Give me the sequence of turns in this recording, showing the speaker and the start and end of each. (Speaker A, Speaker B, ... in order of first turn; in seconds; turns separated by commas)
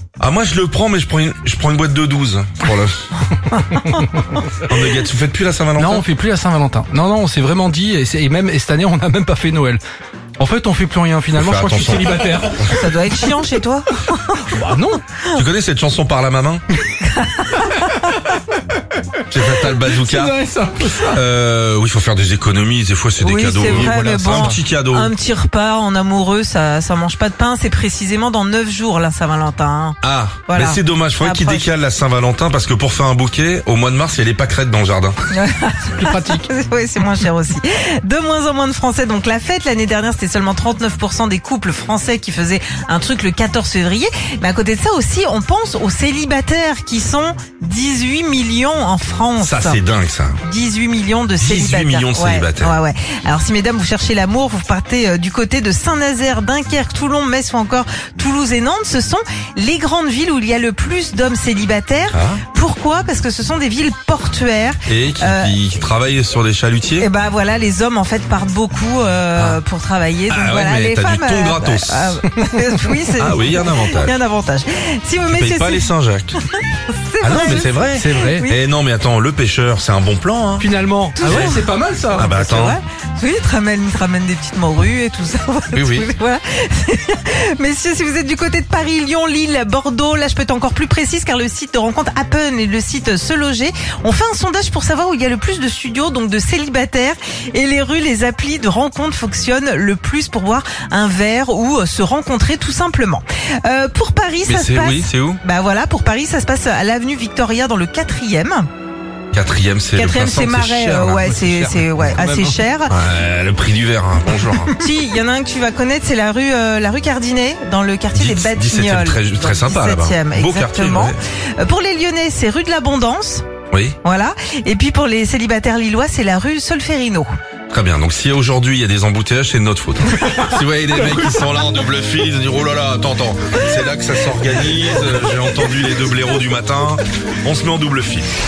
Speaker A: 0.2-3.1, Speaker B: 3.5-4.0, Speaker C: 3.6-4.5, Speaker A: 4.7-6.0, Speaker C: 5.8-9.8, Speaker C: 10.4-13.2, Speaker A: 11.3-12.7, Speaker B: 12.7-14.5, Speaker C: 14.5-15.0, Speaker B: 15.1-15.4, Speaker A: 15.3-16.6, Speaker B: 17.0-18.1, Speaker A: 19.3-20.4, Speaker C: 19.6-21.2, Speaker A: 21.0-25.1, Speaker B: 23.2-31.7, Speaker C: 23.7-24.5, Speaker A: 30.0-35.2, Speaker B: 35.3-49.8, Speaker C: 36.0-36.5, Speaker A: 49.4-50.4, Speaker B: 50.4-65.5, Speaker A: 51.4-52.8, Speaker A: 62.1-62.4, Speaker A: 64.9-67.1, Speaker B: 67.0-75.9, Speaker A: 69.3-69.6, Speaker A: 70.3-72.2, Speaker A: 73.2-74.2, Speaker A: 75.3-76.3, Speaker B: 76.4-78.6, Speaker A: 77.2-80.7, Speaker C: 77.9-78.5, Speaker C: 80.6-82.3, Speaker B: 81.2-108.7, Speaker A: 81.2-81.6, Speaker A: 82.1-82.8, Speaker A: 85.7-86.1, Speaker A: 104.4-105.4, Speaker A: 109.3-114.7, Speaker B: 109.9-113.0, Speaker C: 111.5-112.5, Speaker B: 114.8-123.5, Speaker A: 118.1-121.2, Speaker A: 123.7-124.0, Speaker B: 124.0-127.3, Speaker A: 127.7-138.3